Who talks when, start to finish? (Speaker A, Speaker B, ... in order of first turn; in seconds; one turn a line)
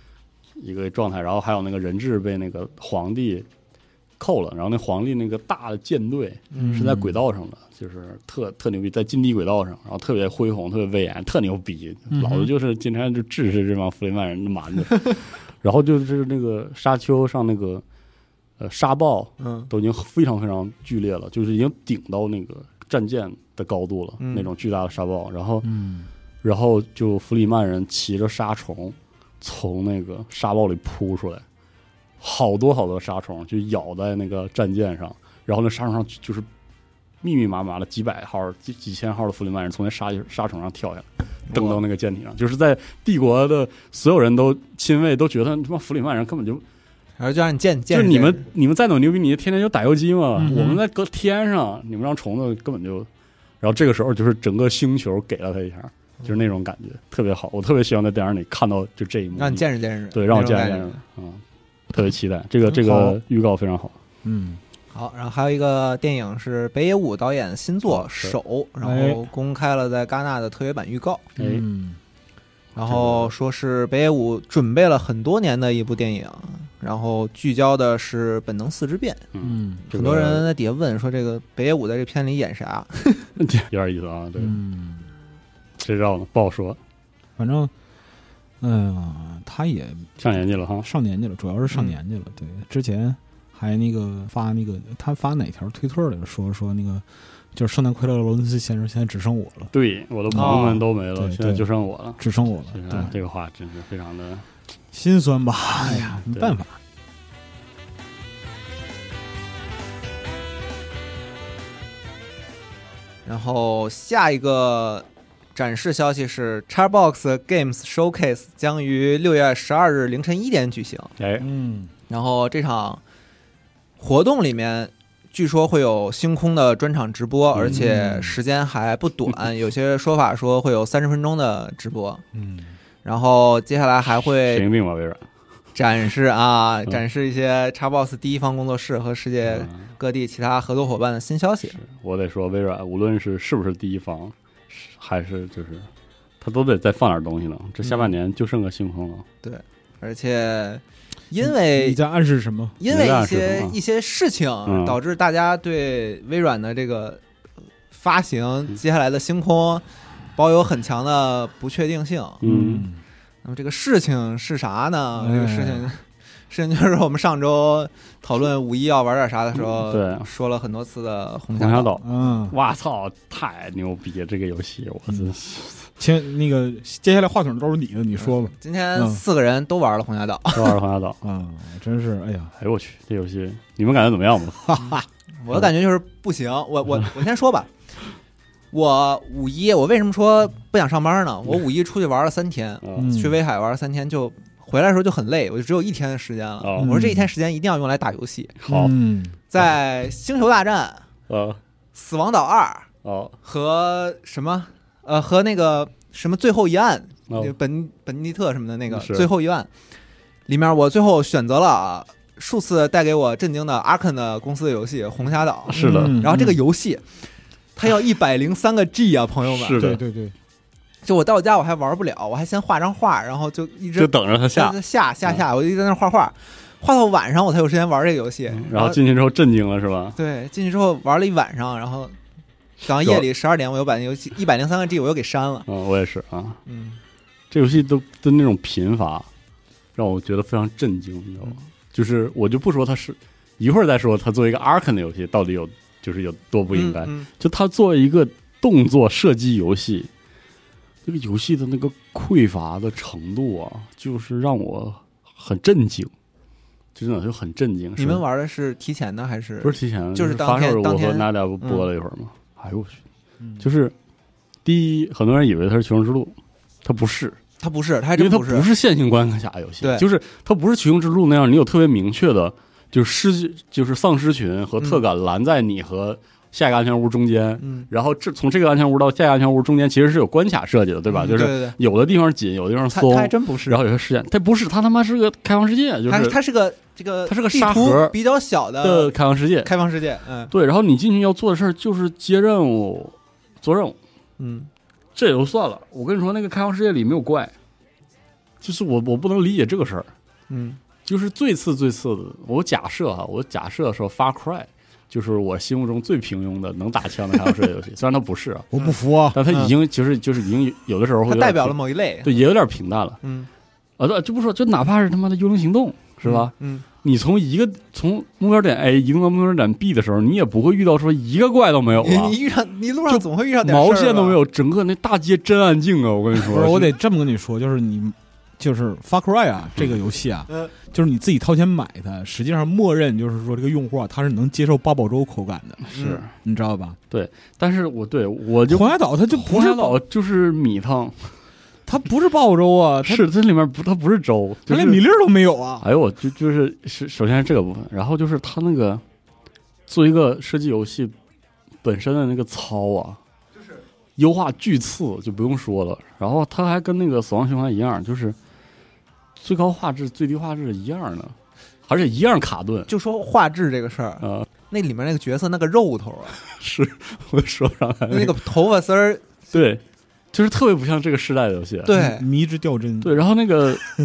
Speaker A: 0.6-3.5
Speaker A: 4.2-17.8
Speaker B: 6.5-6.9
Speaker C: 6.6-7.2
Speaker C: 12.1-12.5
Speaker A: 18.6-25.8
Speaker B: 19.4-19.7
Speaker B: 24.2-24.5
Speaker C: 25.6-26.1
Speaker A: 26.4-31.4
Speaker A: 32.2-36.5
Speaker A: 37.2-46.6
Speaker B: 41.5-41.8
Speaker B: 47.2-48.5
Speaker A: 47.9-53.1
Speaker C: 50.4-50.8
Speaker A: 53.6-64.0
Speaker B: 59.4-61.0
Speaker C: 62.7-63.2
Speaker C: 64.2-64.6
Speaker B: 64.9-71.3
Speaker A: 67.9-68.3
Speaker C: 68.8-69.2
Speaker A: 71.4-71.7
Speaker C: 71.4-72.0
Speaker B: 72.8-79.2
Speaker A: 72.8-73.3
Speaker A: 79.3-80.5
Speaker C: 79.4-79.8
Speaker B: 79.8-83.3
Speaker A: 83.4-84.6
Speaker C: 84.4-85.1
Speaker A: 85.8-86.8
Speaker C: 87.4-87.7
Speaker C: 88.6-90.1
Speaker A: 90.2-90.9
Speaker C: 90.8-99.7
Speaker B: 91.7-92.0
Speaker A: 99.7-104.5
Speaker C: 100.3-101.7
Speaker B: 100.3-100.8
Speaker C: 102.2-103.1
Speaker C: 104.9-106.8
Speaker A: 106.3-106.6
Speaker B: 113.3-121.1
Speaker A: 121.2-121.5
Speaker C: 121.4-121.9
Speaker B: 122.1-123.0
Speaker B: 124.0-132.2
Speaker A: 127.5-127.8
Speaker C: 127.7-128.4
Speaker C: 132.3-132.7
Speaker B: 133.0-134.7
Speaker A: 134.3-135.2
Speaker B: 135.8-141.8
Speaker A: 139.5-139.9
Speaker A: 141.8-145.9
Speaker A: 146.4-149.3
Speaker B: 147.8-148.1
Speaker B: 149.4-152.0
Speaker C: 151.4-152.8
Speaker B: 152.8-157.2
Speaker A: 152.9-153.8
Speaker A: 154.7-155.0
Speaker B: 157.9-159.8
Speaker B: 160.4-162.4
Speaker A: 162.4-162.9
Speaker C: 162.4-163.0
Speaker B: 163.4-172.0
Speaker C: 165.2-165.9
Speaker A: 169.6-170.3
Speaker A: 171.6-175.9
Speaker C: 172.0-172.6
Speaker C: 176.0-179.2
Speaker B: 178.2-180.8
Speaker A: 180.5-181.2
Speaker C: 181.2-182.5
Speaker A: 182.6-184.8
Speaker C: 184.7-185.0
Speaker B: 184.8-187.7
Speaker B: 188.7-198.6
Speaker A: 192.8-193.1
Speaker C: 193.0-193.3
Speaker A: 196.6-197.0
Speaker C: 196.8-197.3
Speaker A: 198.6-198.9
Speaker C: 198.7-199.4
Speaker B: 199.5-201.1
Speaker A: 201.3-201.6
Speaker B: 201.9-202.9
Speaker A: 203.0-203.3
Speaker B: 203.4-209.7
Speaker A: 208.9-209.3
Speaker B: 210.5-217.2
Speaker A: 215.7-216.4
Speaker C: 215.8-216.5
Speaker B: 217.8-219.8
Speaker A: 219.5-220.0
Speaker C: 219.8-220.3
Speaker B: 221.0-229.0
Speaker A: 224.0-225.4
Speaker A: 228.5-230.2
Speaker B: 230.2-232.2
Speaker B: 232.8-235.7
Speaker A: 233.0-233.3
Speaker A: 235.7-236.6
Speaker B: 236.7-237.0
Speaker A: 237.5-239.3
Speaker A: 240.0-250.1
Speaker B: 246.7-247.3
Speaker A: 251.1-256.1
Speaker A: 256.9-258.2
Speaker B: 258.0-261.9
Speaker A: 259.6-263.0
Speaker A: 263.6-263.9
Speaker A: 264.6-267.4
Speaker B: 267.6-268.7
Speaker A: 268.2-286.4
Speaker B: 277.6-277.9
Speaker B: 281.1-281.8
Speaker B: 282.9-283.8
Speaker B: 286.1-289.1
Speaker A: 287.3-288.2
Speaker A: 288.8-289.7
Speaker B: 289.6-290.5
Speaker A: 290.5-294.0
Speaker B: 294.4-294.7
Speaker A: 295.2-297.5
Speaker A: 298.6-300.1
Speaker B: 300.5-300.8
Speaker A: 301.1-308.7
Speaker C: 308.7-309.4
Speaker A: 309.3-313.2
Speaker B: 309.5-309.7
Speaker B: 311.3-312.4
Speaker B: 313.2-313.5
Speaker A: 314.0-322.4
Speaker B: 316.2-316.9
Speaker B: 322.0-324.4
Speaker A: 323.1-326.9
Speaker C: 326.4-335.9
Speaker A: 335.9-336.3
Speaker B: 335.9-336.2
Speaker C: 336.4-337.0
Speaker A: 337.1-341.4
Speaker C: 338.7-340.0
Speaker C: 341.9-343.3
Speaker A: 343.0-345.0
Speaker C: 344.7-345.9
Speaker A: 345.8-349.0
Speaker A: 349.9-351.1
Speaker A: 351.8-353.2
Speaker A: 354.2-358.4
Speaker A: 359.4-362.9
Speaker B: 362.9-366.4
Speaker A: 364.2-364.5
Speaker A: 366.5-368.4
Speaker B: 368.1-369.4
Speaker A: 369.5-372.0
Speaker B: 371.9-372.3
Speaker C: 371.9-373.2
Speaker A: 373.0-373.8